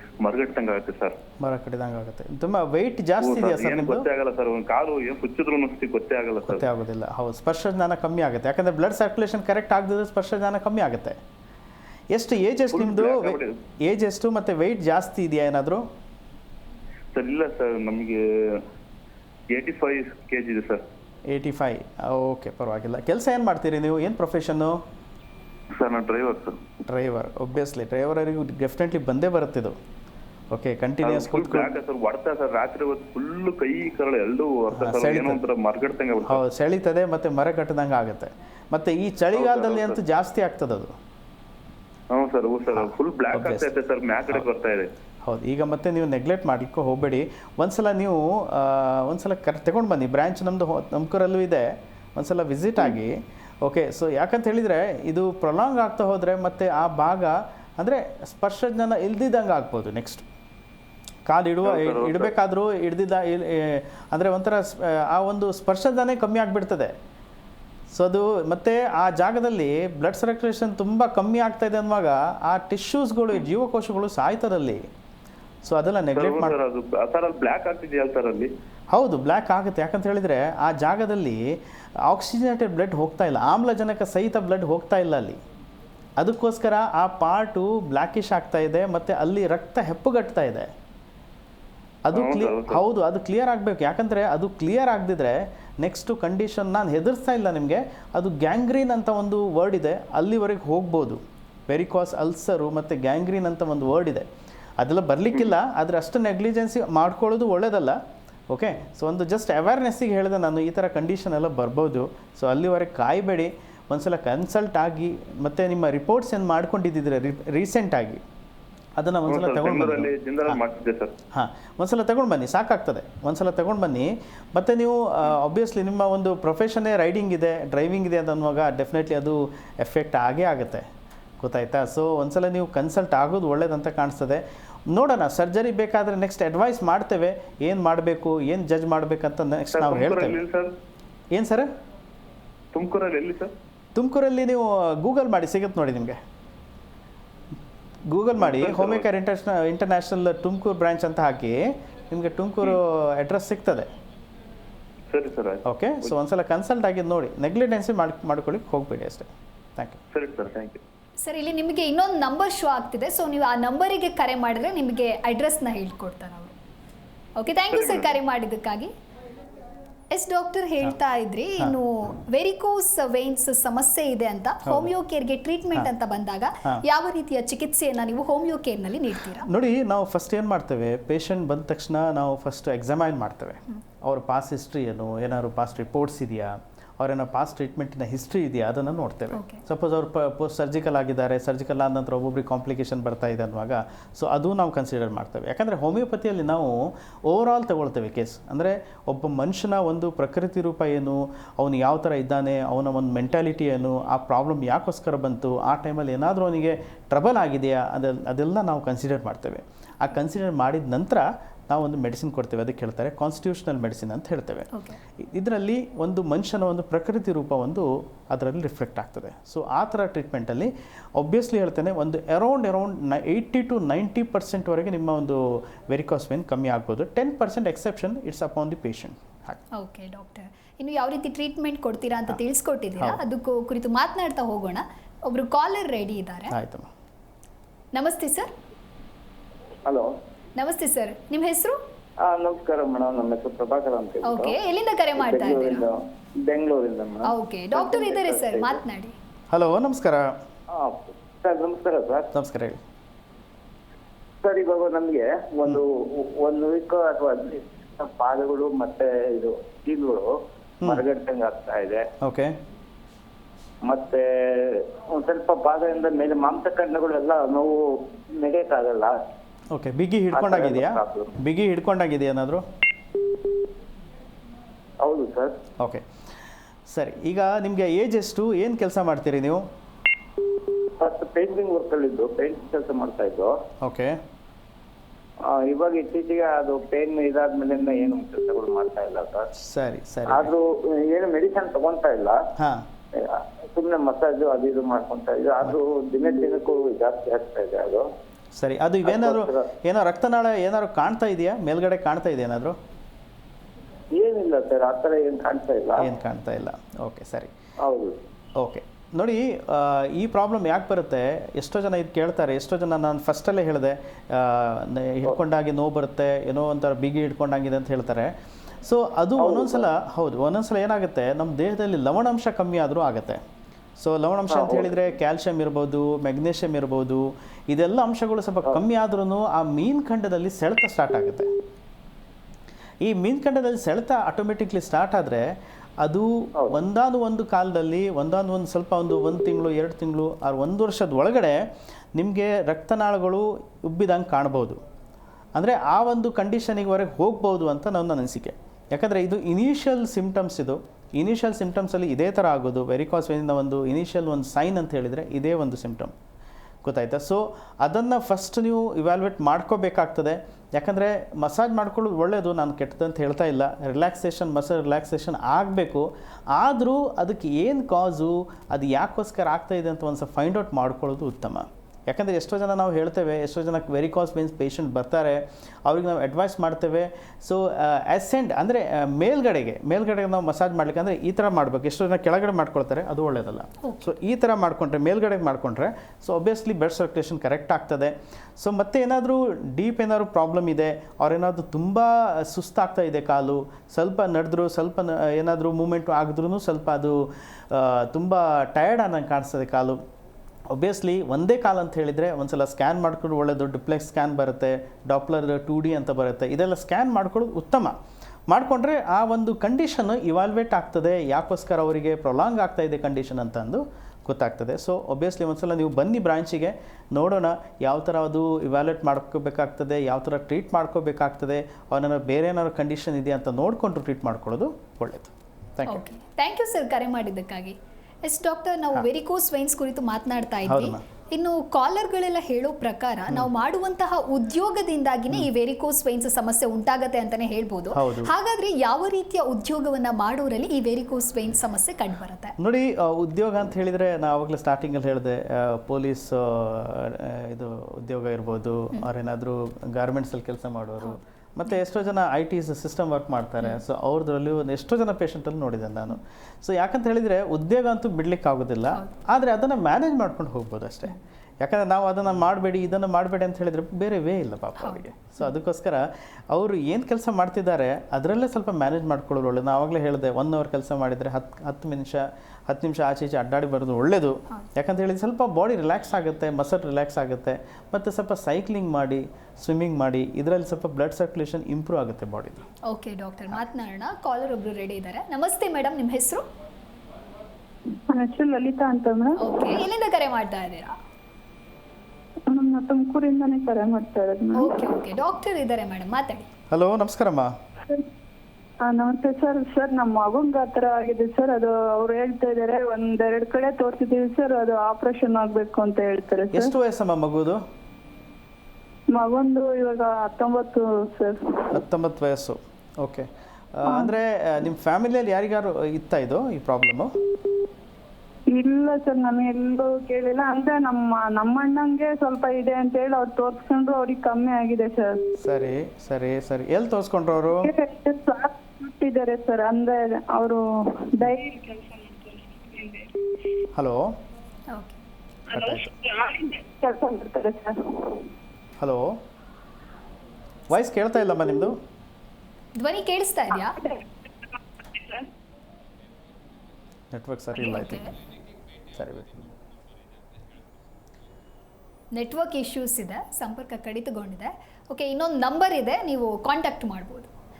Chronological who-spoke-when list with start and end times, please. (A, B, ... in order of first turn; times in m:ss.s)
0:00.2-0:01.2 A
0:01.4-0:04.0 B
0:03.2-0:06.6 A
0:06.4-0:11.2 B
0:12.1-0:15.8 B
0:12.7-0:13.5 A
0:17.1-0:18.6 A
0:19.5-0:20.8 A
0:21.3-0:24.8 B
0:25.7-0:26.6 A
0:26.9-0:29.8 B
0:30.5-0:31.7 B
0:31.0-0:36.4 A
0:34.7-0:35.4 B
0:36.2-0:40.9 B
0:39.3-0:40.0 A
0:42.1-0:44.9 A
0:42.7-0:43.7 B
0:45.2-1:00.2 B
1:01.2-1:06.9 B
1:01.6-1:02.3 A
1:07.9-1:14.9 B
1:15.6-1:16.6 B
1:16.1-1:18.5 A
1:18.9-1:25.4 B
1:26.2-1:30.7 B
1:32.0-1:44.3 B
1:32.1-1:32.8 A
1:44.8-1:48.0 B
1:48.5-1:58.2 B
1:59.0-2:00.6 B
1:59.3-2:01.1 A
2:01.3-2:10.8 B
2:11.4-2:20.4 B
2:19.7-2:20.7 A
2:21.3-2:21.7 B
2:22.7-2:23.5 A
2:23.9-2:26.2 B
2:28.1-2:33.9 B
2:28.4-2:29.0 A
2:35.1-2:36.1 A
2:35.6-2:40.0 B
2:40.1-2:40.8 A
2:41.2-2:46.5 C
2:47.4-2:48.9 C
2:47.7-2:48.2 A
2:50.1-2:59.5 C
2:54.6-2:54.9 B
2:59.3-3:49.6 B
3:09.3-3:09.6 C
3:34.7-3:35.0 C
3:49.7-3:56.5 C
3:56.5-3:56.9 B
3:57.9-3:58.5 C
4:00.6-4:01.8 C
4:02.2-4:04.6 D
4:04.2-4:05.8 C
4:05.2-4:08.8 D
4:07.2-4:09.1 C
4:09.5-4:10.4 B
4:10.7-4:12.3 D
4:12.3-4:12.8 B
4:14.4-4:20.3 D
4:20.8-4:22.0 D
4:22.2-4:22.6 B
4:23.8-4:29.1 D
4:29.7-4:32.6 B
4:30.3-4:31.3 D
4:35.0-4:35.5 D
4:35.8-4:36.0 B
4:36.9-4:39.6 B
4:41.0-4:43.5 D
4:43.8-4:44.2 B
4:45.4-4:49.5 D
4:49.6-4:50.5 B
4:50.3-4:52.4 D
4:52.6-4:52.8 B
4:53.1-4:58.0 D
4:58.6-5:02.8 B
4:59.0-4:59.7 D
5:04.1-5:06.1 D
5:06.0-5:07.5 B
5:07.8-5:08.2 D
5:08.6-5:18.3 B
5:18.8-5:23.4 B
5:19.4-5:19.9 D
5:24.0-5:31.5 B
5:24.5-5:24.9 D
5:33.0-5:35.4 B
5:36.0-5:41.6 B
5:42.1-5:44.8 B
5:45.5-5:56.1 B
5:56.8-6:40.0 B
6:23.8-6:24.1 C
6:40.7-6:48.0 B
6:48.5-7:06.0 B
7:05.9-7:22.5 C
7:10.6-7:11.0 B
7:17.9-7:18.3 B
7:22.6-8:02.6 B
8:02.8-8:06.4 C
8:08.1-8:09.5 E
8:09.4-8:11.0 C
8:12.5-8:14.8 E
8:14.5-8:16.5 C
8:16.7-8:17.5 B
8:18.8-8:26.7 E
8:26.5-8:27.6 B
8:29.1-8:31.8 E
8:31.7-8:37.1 B
8:33.8-8:34.1 E
8:38.5-8:45.2 E
8:45.4-8:47.7 B
8:47.5-8:53.1 E
8:53.7-8:54.1 B
8:54.7-8:55.0 C
8:55.5-8:55.9 B
8:55.5-8:58.3 E
8:58.8-8:59.2 B
9:00.7-9:01.8 B
9:02.8-9:03.8 C
9:03.5-9:04.1 E
9:04.8-9:05.2 E
9:07.1-9:08.0 B
9:07.6-9:08.1 C
9:08.9-9:09.4 B
9:12.1-9:17.3 C